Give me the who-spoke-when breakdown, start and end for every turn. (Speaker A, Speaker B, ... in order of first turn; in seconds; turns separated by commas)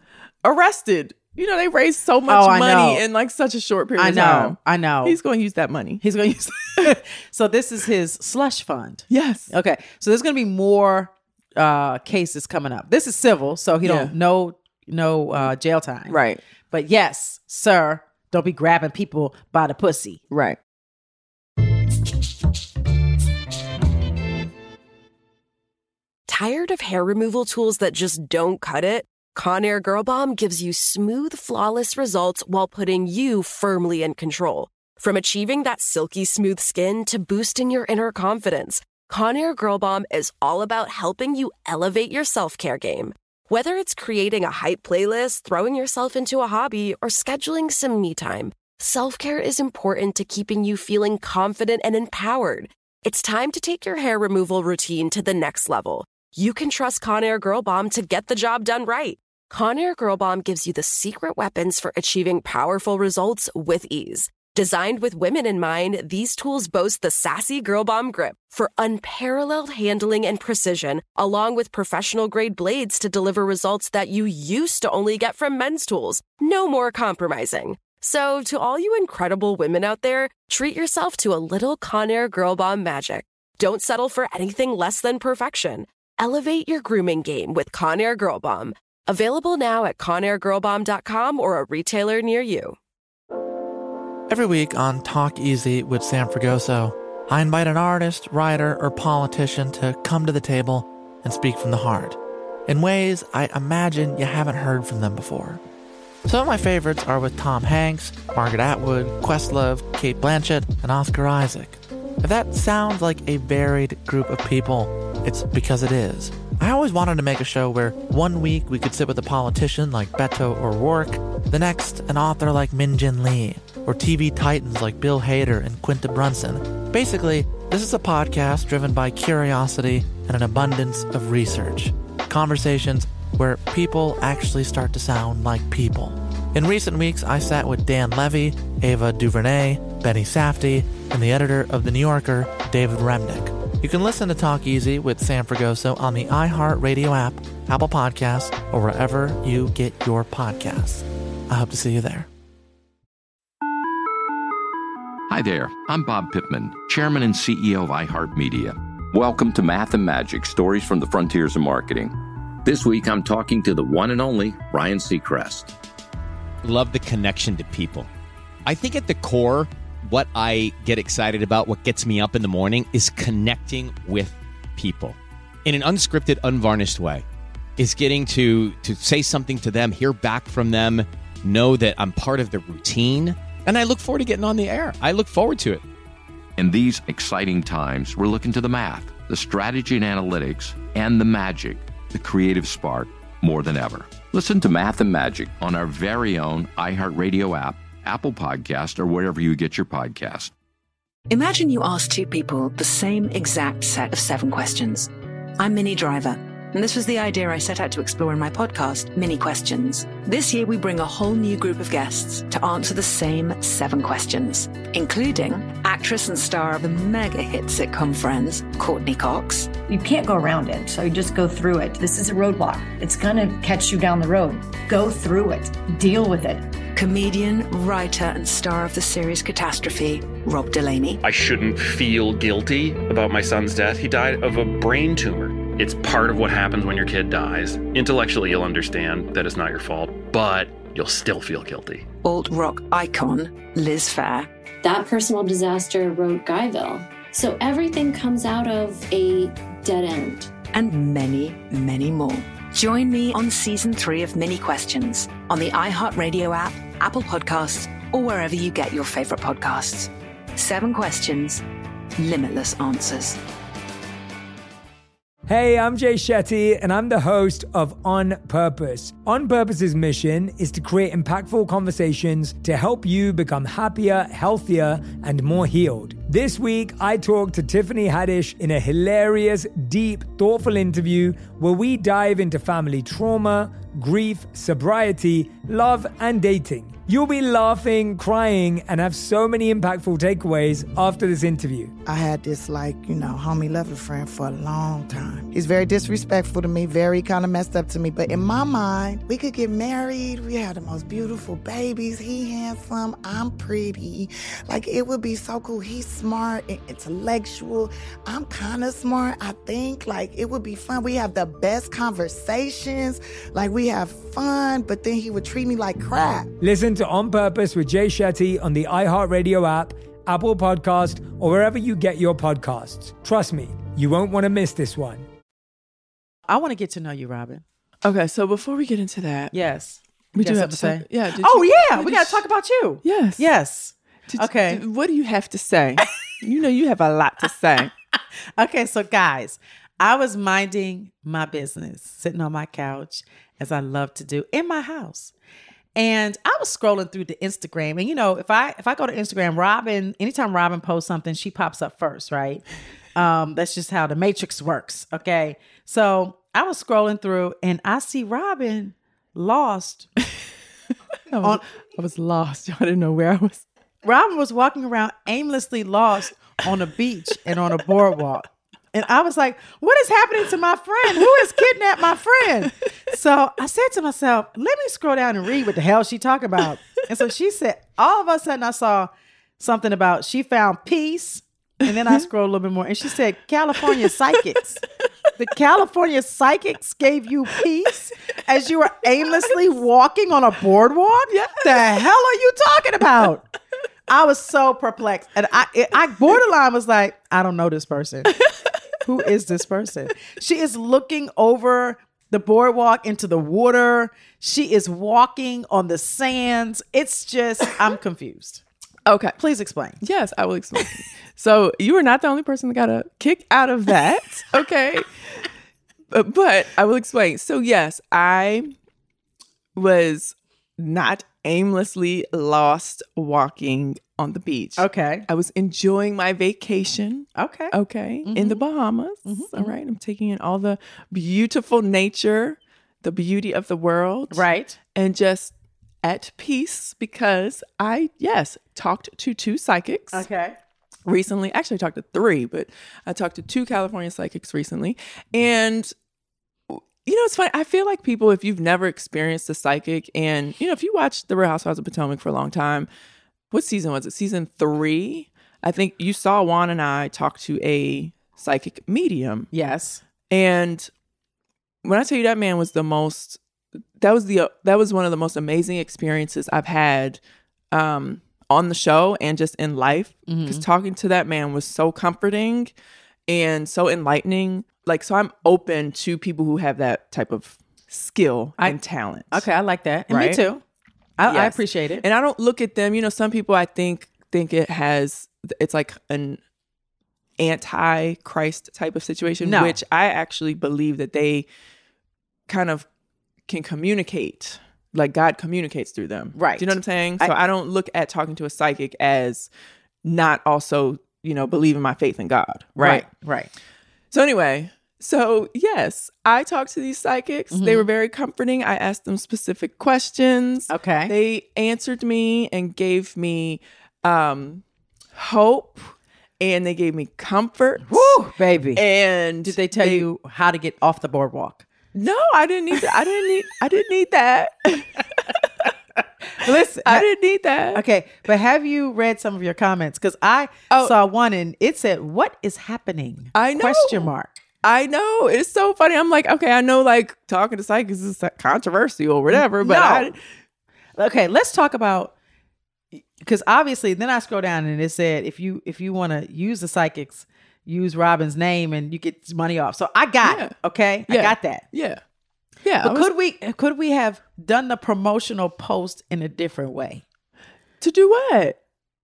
Speaker A: 0.4-6.0, Speaker B: 2.3-3.0, Speaker B: 4.0-5.2, Speaker B: 6.0-20.2, Speaker A: 9.1-9.5, Speaker A: 13.8-14.1, Speaker A: 16.1-16.4, Speaker A: 20.3-20.6, Speaker C: 26.3-92.8, Speaker D: 94.3-105.6, Speaker D: 106.2-152.3, Speaker E: 155.3-165.7, Speaker F: 166.6-168.1, Speaker F: 168.7-177.2, Speaker F: 177.8-185.8, Speaker E: 186.6-200.5, Speaker G: 201.3-219.7, Speaker H: 219.9-226.7, Speaker G: 226.9-231.2, Speaker I: 231.2-242.1, Speaker G: 242.2-244.5, Speaker J: 244.8-250.6, Speaker G: 250.7-261.6, Speaker G: 262.2-263.4, Speaker K: 265.5-291.9, Speaker L: 292.1-316.5, Speaker K: 316.6-325.2, Speaker B: 326.5-327.6, Speaker A: 328.0-329.5, Speaker B: 329.5-334.8, Speaker A: 330.4-332.4, Speaker A: 333.0-333.5, Speaker A: 334.3-337.9, Speaker B: 338.6-345.3, Speaker B: 345.9-352.6, Speaker B: 353.1-360.1, Speaker A: 361.3-363.6, Speaker B: 364.0-384.8, Speaker A: 381.9-382.2, Speaker B: 385.4-393.4, Speaker A: 391.3-391.7, Speaker B: 394.1-398.3, Speaker B: 399.0-408.6, Speaker A: 409.1-409.4, Speaker B: 409.4-410.0, Speaker A: 410.0-415.1, Speaker A: 416.1-418.7, Speaker A: 419.8-435.5, Speaker B: 424.8-425.2, Speaker B: 427.4-427.7, Speaker B: 428.2-428.6, Speaker B: 429.2-429.7, Speaker B: 434.3-434.8, Speaker A: 436.0-440.2, Speaker B: 440.1-440.6, Speaker A: 441.1-445.9, Speaker A: 446.7-452.9, Speaker A: 453.5-459.5, Speaker B: 459.5-460.0, Speaker A: 460.3-460.9, Speaker A: 461.8-463.4, Speaker A: 464.0-467.2, Speaker A: 467.7-472.7, Speaker B: 470.3-470.6, Speaker A: 473.3-479.4, Speaker B: 479.3-480.6, Speaker A: 480.1-480.4, Speaker B: 481.2-482.0, Speaker A: 481.3-486.4, Speaker A: 487.4-491.5, Speaker B: 489.4-489.8, Speaker A: 492.5-492.9, Speaker A: 493.5-499.5, Speaker B: 496.4-497.3, Speaker A: 500.0-503.1, Speaker B: 502.8-503.5, Speaker A: 504.1-514.6, Speaker B: 507.5-507.9, Speaker B: 510.7-511.1, Speaker A: 515.1-518.2, Speaker B: 517.9-518.8, Speaker A: 518.8-520.1, Speaker B: 519.4-521.6, Speaker A: 521.9-525.0, Speaker B: 526.3-527.0, Speaker A: 526.8-527.8, Speaker B: 527.7-534.4, Speaker A: 530.7-530.9, Speaker A: 533.3-534.1, Speaker A: 534.6-540.2, Speaker B: 539.3-540.1, Speaker B: 541.0-542.1, Speaker B: 542.9-551.6, Speaker A: 550.2-550.5, Speaker A: 551.1-552.0, Speaker A: 552.6-553.1, Speaker B: 552.8-557.0, Speaker A: 557.8-558.6